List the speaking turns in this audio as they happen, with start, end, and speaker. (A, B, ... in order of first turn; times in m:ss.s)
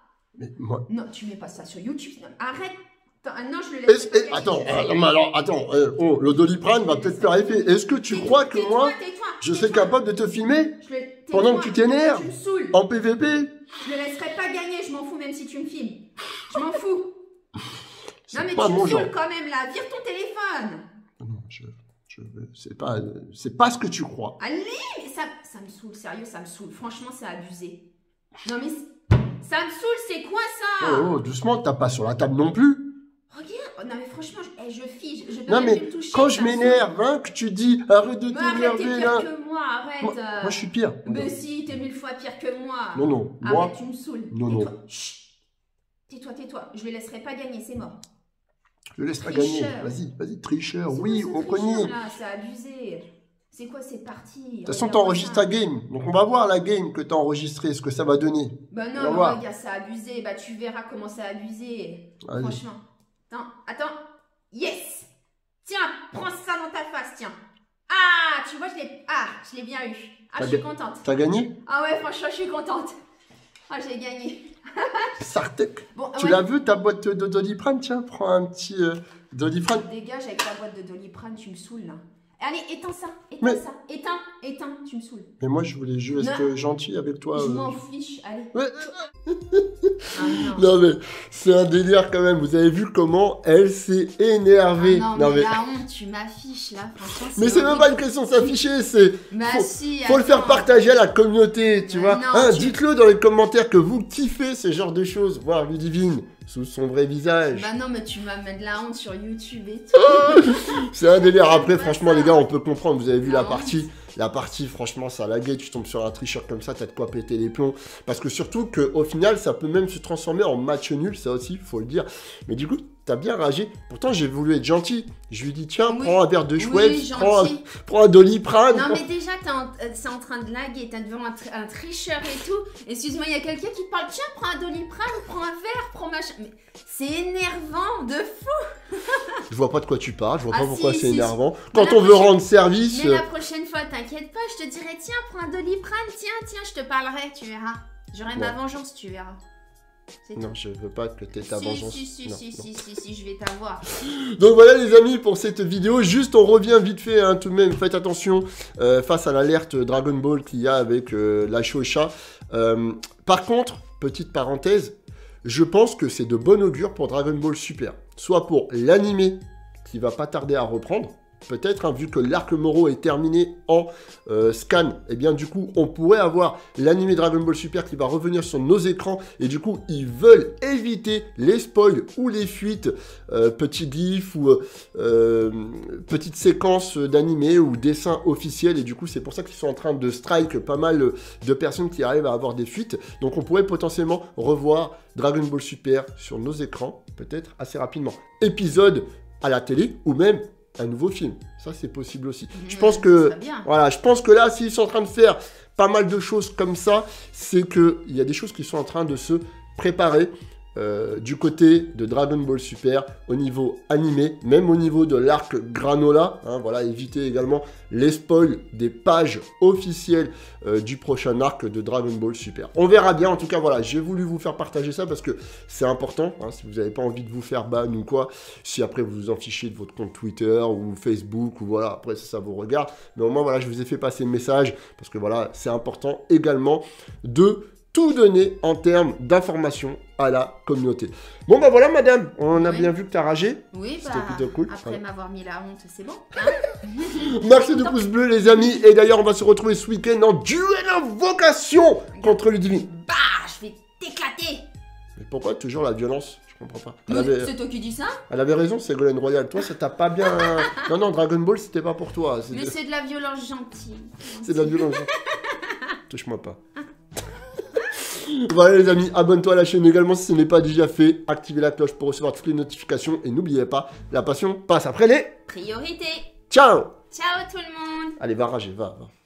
0:00.4-0:00.8 A
0:00.9-0:05.0 B
0:03.9-0:10.8 A
0:06.7-0:09.9 B
0:10.8-0:12.8 B
0:11.3-0:13.5 A
0:13.8-0:17.1 B
0:18.3-0:19.1 A
0:18.3-0:20.8 B
0:21.2-0:24.4 A
0:24.4-0:27.8 B
0:28.4-0:28.8 B
0:29.4-0:31.2 B
0:30.8-0:32.8 A
0:33.3-0:36.9 B
0:35.5-0:39.3 A
0:38.3-0:45.3 B
0:40.0-0:41.3 A
0:42.9-0:43.7 A
0:44.3-0:44.7 A
0:46.1-0:48.0 B
0:49.0-0:51.9 A
0:49.2-0:49.9 B
0:50.8-0:55.5 B
0:54.6-0:59.4 A
0:58.7-1:04.0 B
1:02.2-1:02.6 A
1:04.5-1:05.1 B
1:05.6-1:07.3 B
1:07.9-1:11.1 B
1:10.4-1:11.5 A
1:11.6-1:12.9 B
1:13.7-1:15.1 B
1:15.2-1:19.9 A
1:15.9-1:16.5 B
1:19.7-1:25.3 B
1:25.4-1:27.7 A
1:26.2-1:26.5 B
1:27.3-1:28.5 B
1:28.5-1:35.6 A
1:30.1-1:30.7 B
1:34.8-1:38.6 B
1:37.3-1:47.7 A
1:39.3-1:40.8 B
1:41.8-1:42.8 B
1:47.5-1:52.4 B
1:49.9-2:09.0 A
1:53.2-1:53.8 B
2:05.8-2:07.6 B
2:08.7-2:19.2 B
2:19.5-2:23.2 A
2:20.5-2:22.3 B
2:22.9-2:29.4 B
2:28.3-2:28.6 A
2:30.2-2:30.5 B
2:30.4-2:32.6 A
2:31.3-2:33.8 B
2:33.9-4:05.0 A
3:22.5-3:23.7 B
4:02.5-4:02.9 B
4:03.7-4:08.0 B
4:07.1-4:12.9 A
4:12.1-4:14.6 B
4:15.2-4:17.5 A
4:17.1-4:18.2 B
4:18.3-4:22.7 A
4:20.2-4:20.8 B
4:22.5-4:25.9 B
4:24.4-4:25.1 A
4:26.1-4:26.6 A
4:28.0-4:35.3 A
4:35.5-4:36.3 B
4:36.5-4:36.9 A
4:37.1-4:38.2 B
4:38.2-4:39.1 A